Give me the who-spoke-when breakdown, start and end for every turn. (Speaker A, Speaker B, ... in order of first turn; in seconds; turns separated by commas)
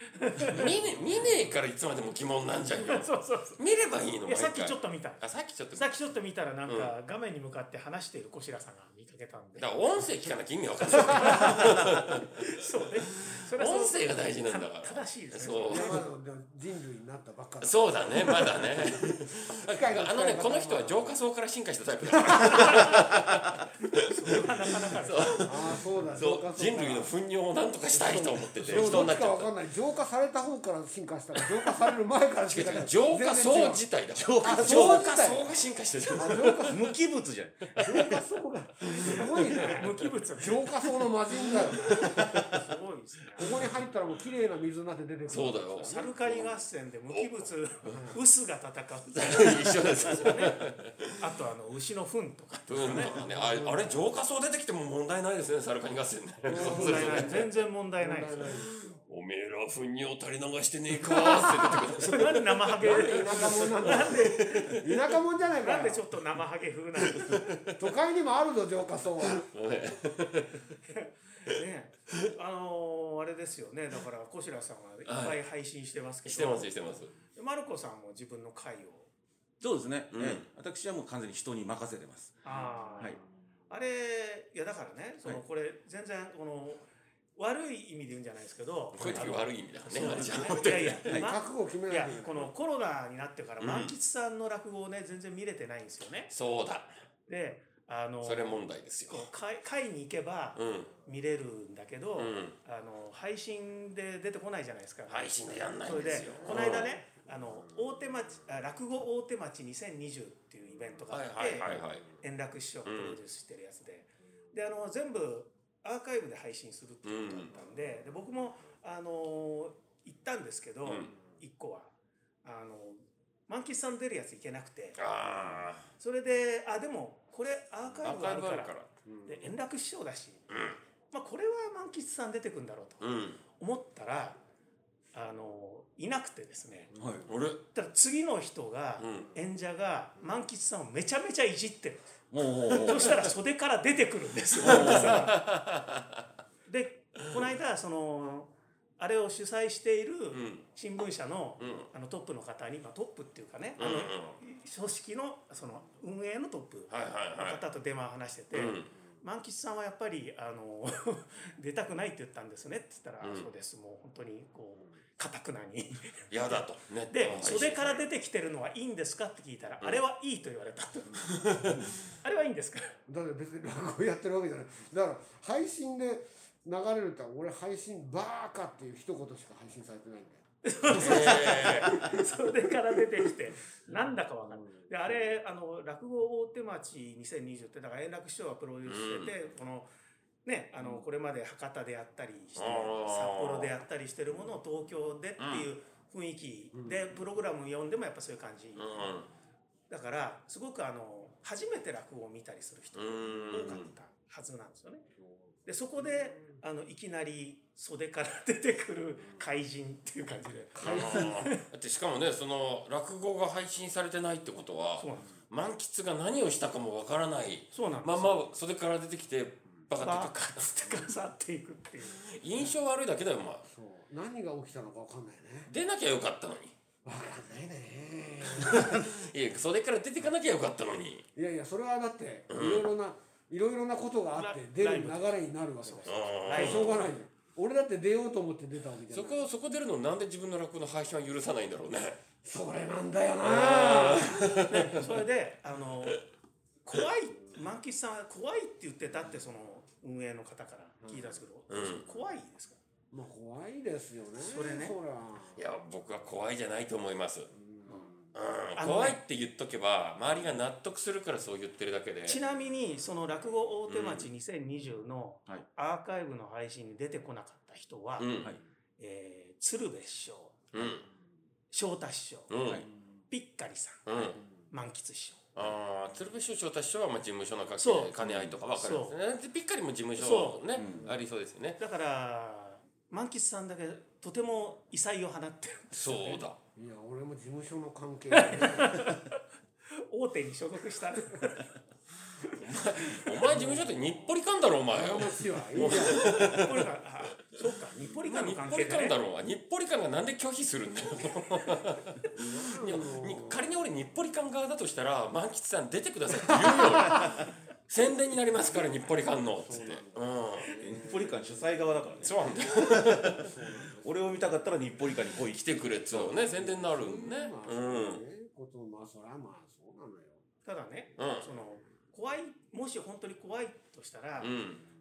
Speaker A: 0.1-0.7, Speaker B: 0.4-5.9, Speaker A: 2.8-3.6, Speaker A: 4.2-9.8, Speaker B: 6.7-6.9, Speaker B: 9.6-12.4, Speaker A: 11.0-11.8, Speaker A: 12.3-16.0, Speaker B: 13.1-16.0, Speaker C: 15.7-21.2, Speaker B: 17.6-29.5, Speaker C: 22.3-22.9, Speaker A: 24.0-25.5, Speaker C: 25.4-27.1, Speaker C: 27.9-33.8, Speaker A: 28.6-29.1, Speaker B: 32.5-36.9, Speaker D: 34.1-35.3, Speaker C: 34.4-36.8, Speaker D: 36.7-38.0, Speaker B: 37.7-38.1, Speaker C: 37.8-42.1, Speaker B: 38.9-39.9, Speaker A: 39.7-40.7, Speaker B: 41.5-42.4, Speaker A: 41.8-43.5, Speaker D: 42.2-42.5, Speaker C: 43.4-46.1, Speaker B: 45.3-46.5, Speaker A: 45.9-50.6, Speaker B: 47.1-47.5, Speaker C: 47.9-48.2, Speaker B: 49.1-51.1, Speaker A: 51.2-53.1, Speaker B: 52.7-57.5, Speaker C: 53.1-54.1, Speaker C: 56.4-59.0, Speaker A: 56.5-58.4, Speaker B: 59.1-64.9, Speaker C: 61.0-62.0, Speaker A: 62.0-64.8, Speaker C: 62.8-66.0, Speaker A: 65.6-67.5, Speaker B: 67.0-67.8, Speaker C: 67.8-69.5, Speaker B: 69.2-70.6, Speaker A: 70.9-76.7, Speaker B: 75.1-75.4, Speaker B: 76.2-77.1, Speaker A: 77.3-79.1, Speaker D: 79.6-82.4, Speaker B: 80.1-80.4, Speaker A: 82.4-96.3, Speaker D: 88.9-89.2, Speaker B: 89.0-91.1, Speaker C: 91.2-92.5, Speaker B: 93.6-93.9, Speaker B: 96.3-96.9, Speaker A: 97.3-121.9, Speaker B: 98.2-99.3, Speaker B: 100.5-100.9, Speaker B: 102.2-102.5, Speaker B: 105.1-106.9, Speaker C: 106.4-106.8, Speaker B: 111.1-112.0, Speaker B: 112.8-113.2, Speaker B: 117.0-117.5, Speaker B: 120.8-121.1, Speaker A: 122.4-125.0, Speaker B: 125.0-125.9, Speaker A: 125.9-128.7, Speaker B: 128.0-128.9, Speaker C: 129.1-129.5, Speaker A: 129.2-130.4, Speaker B: 130.5-130.8, Speaker A: 131.1-134.4, Speaker B: 133.0-133.4, Speaker A: 135.1-136.9, Speaker D: 136.9-137.3, Speaker B: 137.3-137.6, Speaker A: 137.7-142.1, Speaker B: 139.0-139.3, Speaker D: 142.3-143.3, Speaker A: 142.6-145.4, Speaker D: 144.6-145.3, Speaker B: 144.6-146.2, Speaker A: 146.7-166.5, Speaker B: 150.3-150.6, Speaker B: 151.6-151.9, Speaker B: 153.8-154.4, Speaker B: 156.9-157.6, Speaker B: 158.5-158.9, Speaker B: 163.2-163.5, Speaker B: 166.3-168.0, Speaker A: 167.1-171.5, Speaker B: 171.3-171.8, Speaker A: 172.1-172.9, Speaker C: 173.1-180.4, Speaker A: 180.6-189.9, Speaker B: 180.9-181.9, Speaker C: 181.0-181.5, Speaker B: 188.8-189.3, Speaker A: 190.4-199.1, Speaker B: 192.6-193.7, Speaker B: 195.4-195.7, Speaker C: 196.7-197.0, Speaker B: 198.8-199.3, Speaker A: 199.9-205.1, Speaker B: 202.9-203.9, Speaker A: 205.6-211.6, Speaker C: 210.7-211.3, Speaker B: 210.8-220.9, Speaker A: 215.0-215.3, Speaker A: 217.7-218.4, Speaker A: 220.0-222.4, Speaker B: 222.2-223.7, Speaker C: 223.7-225.7, Speaker B: 225.7-226.7, Speaker C: 227.0-229.1, Speaker B: 228.5-231.2, Speaker C: 231.3-239.5, Speaker B: 232.5-232.9, Speaker A: 234.4-236.9, Speaker B: 236.1-237.1, Speaker B: 239.1-242.2, Speaker C: 242.4-244.8, Speaker B: 243.4-245.0, Speaker A: 244.7-246.2, Speaker A: 246.8-252.8, Speaker C: 251.0-251.3, Speaker B: 251.7-252.1, Speaker C: 253.1-255.6, Speaker A: 254.4-254.9, Speaker B: 255.6-257.5, Speaker C: 257.6-258.2, Speaker B: 258.3-262.4, Speaker A: 258.8-259.2, Speaker A: 262.2-268.3, Speaker B: 263.9-264.3, Speaker B: 268.2-268.5, Speaker A: 269.0-270.6, Speaker B: 270.7-271.1, Speaker A: 271.7-272.5, Speaker B: 272.5-272.9, Speaker A: 273.3-274.1, Speaker B: 274.1-274.4, Speaker A: 274.6-275.4, Speaker B: 275.5-281.8, Speaker A: 277.8-278.1, Speaker D: 278.2-278.6, Speaker A: 278.7-279.1, Speaker A: 280.2-280.6, Speaker D: 280.7-281.1, Speaker A: 281.8-286.4, Speaker B: 285.9-286.6, Speaker C: 286.8-289.0, Speaker A: 288.3-289.4, Speaker A: 289.9-291.7, Speaker B: 292.5-296.9, Speaker C: 293.5-294.3, Speaker C: 294.9-296.4, Speaker A: 296.0-299.1, Speaker B: 298.2-310.8, Speaker C: 302.4-303.7, Speaker C: 306.7-307.4, Speaker C: 308.7-311.6, Speaker D: 310.8-316.5, Speaker B: 312.2-313.5, Speaker C: 313.3-314.4, Speaker B: 315.4-318.2, Speaker C: 316.6-320.4, Speaker A: 320.6-324.6, Speaker B: 321.2-321.5, Speaker B: 324.4-324.8